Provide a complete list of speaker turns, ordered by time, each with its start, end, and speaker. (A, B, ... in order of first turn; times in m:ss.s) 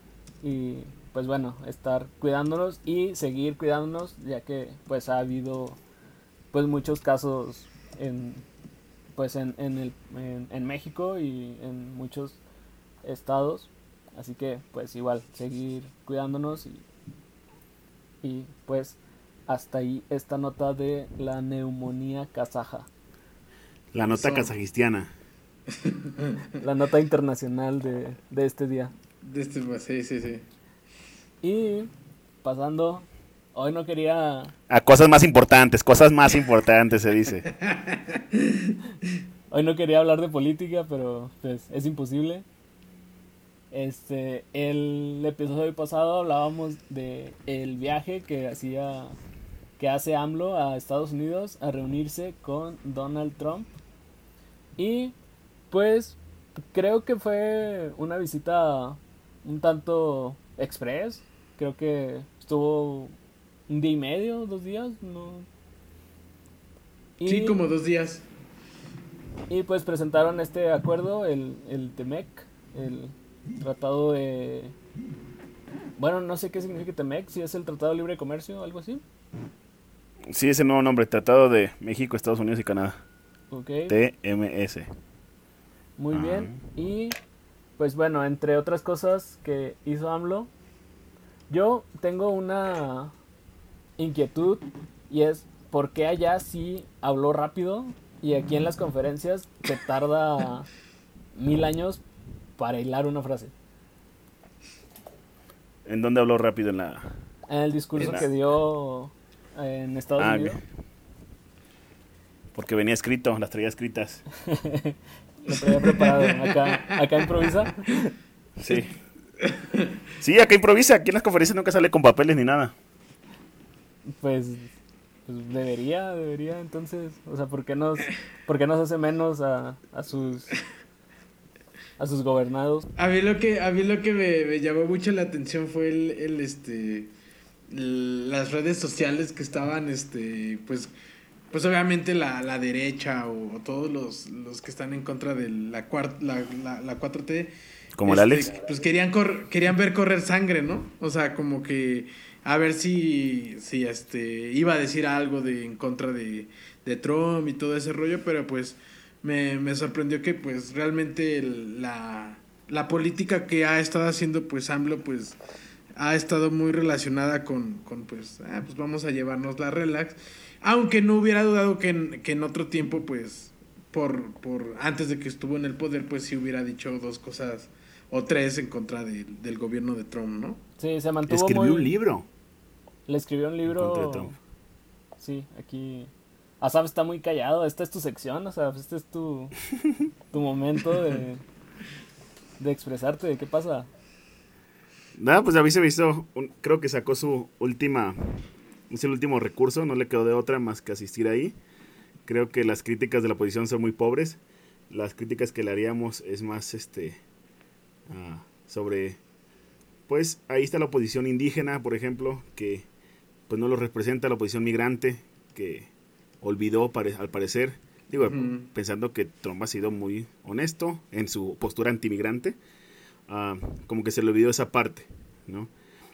0:00.4-0:05.8 A
0:06.5-0:08.4 A
0:09.2-0:12.4 A
0:13.0-0:16.8 A
0:18.2-0:22.9 A
0:23.9-0:25.1 B
0:24.0-0:24.5 C
0:25.8-0:26.4 C
0:26.6-0:28.9 A
0:29.2-0:30.4 C
0:31.4-0:31.9 A
0:32.4-0:34.5 A
0:34.7-0:37.5 B
0:37.6-0:38.7 C
0:39.5-0:42.4 A
0:43.7-0:49.2 A
0:49.8-0:53.7 A
0:54.8-0:55.1 A
0:55.7-0:56.2 A
0:56.7-1:03.1 A
1:03.7-1:05.5 A
1:07.2-1:07.6 A
1:07.2-1:08.2 C
1:09.5-1:14.7 A
1:16.0-1:19.0 A
1:20.3-1:23.0 B
1:23.5-1:24.0 A
1:23.9-1:24.9 B
1:26.0-1:27.2 A
1:26.1-1:26.6 B
1:27.8-1:30.5 A
1:31.5-1:33.1 A
1:34.0-1:40.7 A
1:41.3-1:42.0 A
1:42.6-1:43.5 A
1:45.8-1:47.1 B
1:47.5-1:50.6 A
1:48.0-1:48.2 B
1:50.2-1:50.6 B
1:52.5-1:54.2 B
1:54.4-1:58.1 A
1:55.8-1:56.6 C
1:58.6-1:58.9 B
1:59.4-1:59.8 C
2:00.2-2:02.7 B
2:04.2-2:04.7 A
2:05.2-2:10.5 A
2:12.0-2:12.8 A
2:13.0-2:17.1 C
2:17.7-2:20.9 C
2:21.5-2:27.5 C
2:28.0-2:28.5 B
2:28.0-2:45.4 C
2:46.0-3:00.6 C
3:00.8-3:01.9 A
3:01.3-3:02.3 B
3:03.1-3:04.3 A
3:03.7-3:04.4 B
3:05.2-3:06.1 A
3:06.6-3:09.6 A
3:10.3-3:11.4 A
3:12.6-3:13.9 A
3:15.2-3:18.3 B
3:18.9-3:21.6 B
3:22.3-3:27.2 B
3:28.1-3:29.2 B
3:30.1-3:32.8 B
3:33.5-3:35.9 B
3:36.4-3:42.6 B
3:38.2-3:38.7 C
3:43.3-3:45.7 B